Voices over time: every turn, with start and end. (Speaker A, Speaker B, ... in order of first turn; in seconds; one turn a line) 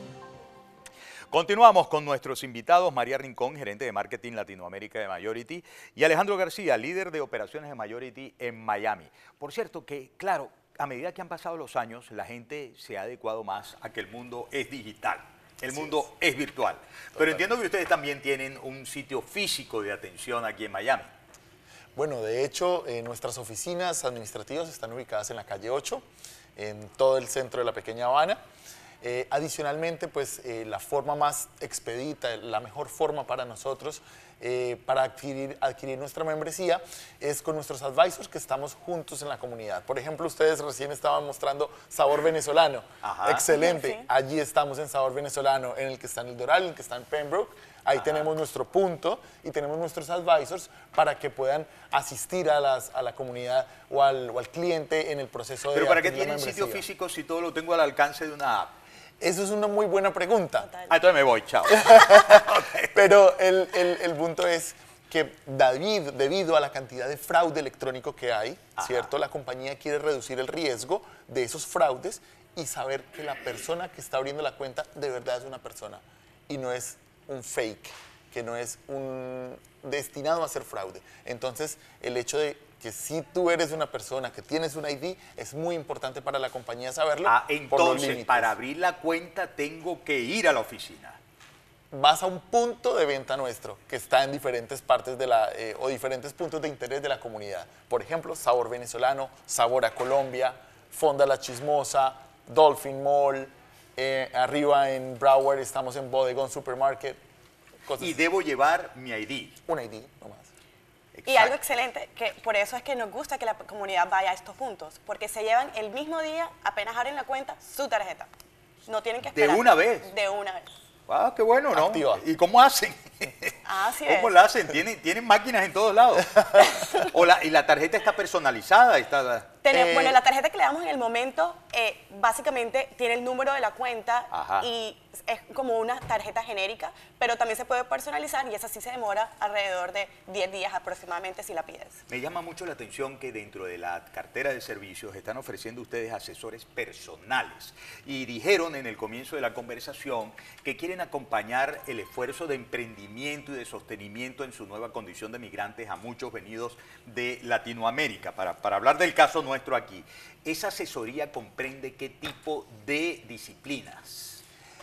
Speaker A: 1.3-21.1
Speaker B: 15.7-16.0
Speaker B: 17.1-17.5
Speaker B: 21.9-26.0
Speaker B: 26.6-28.4
Speaker B: 29.0-56.9
Speaker A: 43.0-43.4
Speaker C: 43.5-44.1
Speaker A: 48.0-48.2
Speaker A: 55.7-58.7
Speaker B: 59.2-60.7
Speaker C: 60.6-60.9
Speaker A: 60.9-62.9
Speaker B: 61.8-88.5
Speaker A: 68.8-69.1
Speaker A: 87.2-91.2
Speaker B: 91.9-107.2
Speaker B: 107.8-108.2
Speaker A: 108.0-109.6
Speaker B: 109.7-110.5
Speaker A: 111.1-111.5
Speaker C: 111.3-118.3
Speaker C: 118.8-120.7
Speaker A: 119.2-120.1
Speaker A: 121.1-129.5
Speaker B: 121.7-122.2
Speaker C: 123.6-124.4
Speaker C: 126.6-127.1
Speaker C: 129.6-142.0
Speaker B: 129.7-130.2
Speaker A: 134.3-134.7
Speaker A: 142.1-164.4